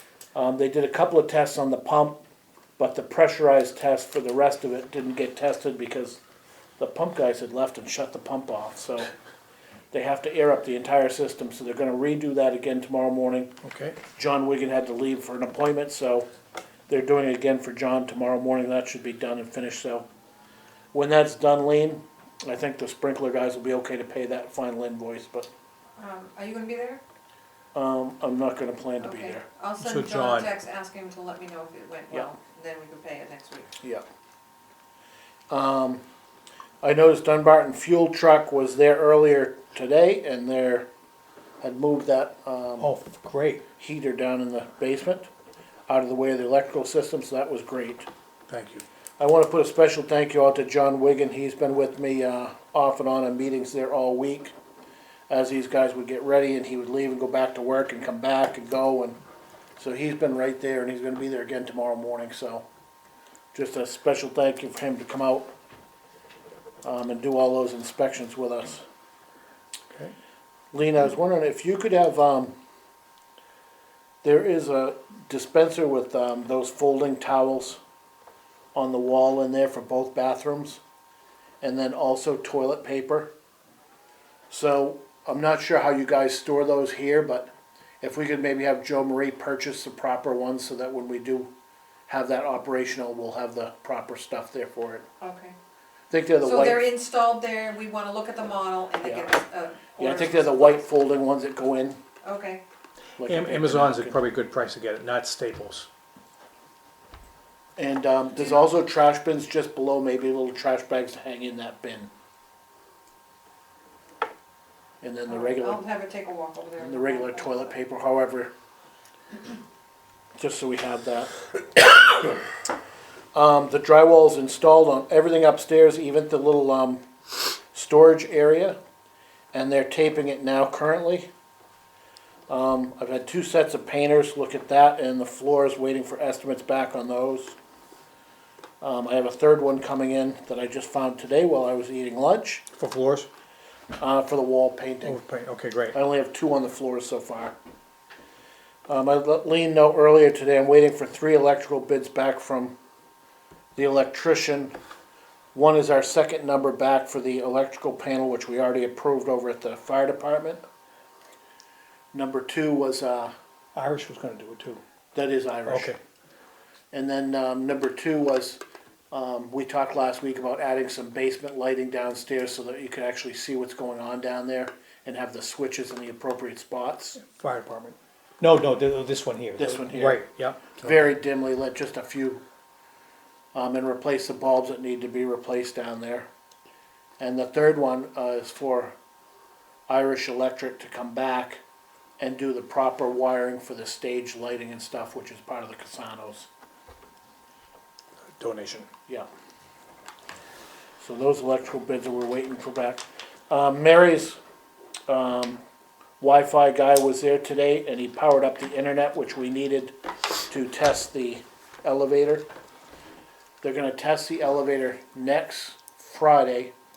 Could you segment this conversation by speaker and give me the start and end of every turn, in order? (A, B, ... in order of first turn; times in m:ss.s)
0:00.4-0:02.2 A
0:02.8-0:06.2 A
0:06.8-0:09.1 A
0:09.9-0:13.5 A
0:13.6-0:14.0 B
0:14.1-0:16.3 A
0:16.9-0:20.1 A
0:20.9-0:25.5 A
0:26.0-0:27.0 C
0:27.7-0:29.4 A
0:29.0-0:33.8 C
0:29.8-0:30.5 B
0:35.5-0:36.0 A
0:36.8-0:40.9 A
0:41.6-0:42.9 A
0:42.8-0:43.6 B
0:43.8-0:45.3 A
0:45.9-0:48.1 A
0:48.5-0:48.8 B
0:49.2-0:54.5 A
0:55.3-0:59.2 A
0:59.8-1:02.6 A
1:03.5-1:05.5 A
1:06.8-1:08.8 A
1:10.7-1:12.5 A
1:14.2-1:17.8 A
1:18.7-1:20.8 A
1:21.6-1:23.3 A
1:24.5-1:31.5 A
1:32.1-1:35.1 A
1:35.2-1:35.6 C
1:36.1-1:36.9 A
1:36.4-1:40.8 C
1:39.0-1:39.3 A
1:40.0-1:42.0 A
1:42.2-1:42.6 C
1:43.2-1:44.2 A
1:43.2-1:45.9 B
1:47.8-1:52.1 A
1:55.0-1:55.8 A
1:55.3-1:57.8 C
1:56.8-1:58.5 A
2:00.4-2:02.4 A
2:03.3-2:07.0 A
2:07.7-2:08.8 A
2:09.5-2:11.3 A
2:12.5-2:17.6 A
2:18.8-2:22.7 A
2:22.7-2:23.3 B
2:24.0-2:25.2 A
2:25.0-2:26.0 B
2:25.9-2:27.6 A
2:28.9-2:32.8 A
2:33.8-2:34.8 A
2:35.5-2:40.6 A
2:42.1-2:43.3 A
2:43.8-2:44.8 B
2:45.2-2:45.9 A
2:45.7-2:46.0 B
2:46.9-2:57.2 A
2:57.2-3:01.1 B
2:59.6-3:00.2 A
3:00.8-3:02.4 A
3:03.5-3:06.3 A
3:07.2-3:09.0 A
3:09.9-3:11.6 A
3:12.2-3:16.5 A
3:18.4-3:18.9 B
3:21.0-3:24.4 A
3:25.1-3:25.6 A
3:26.2-3:30.0 A
3:30.5-3:32.5 A
3:33.6-3:36.7 A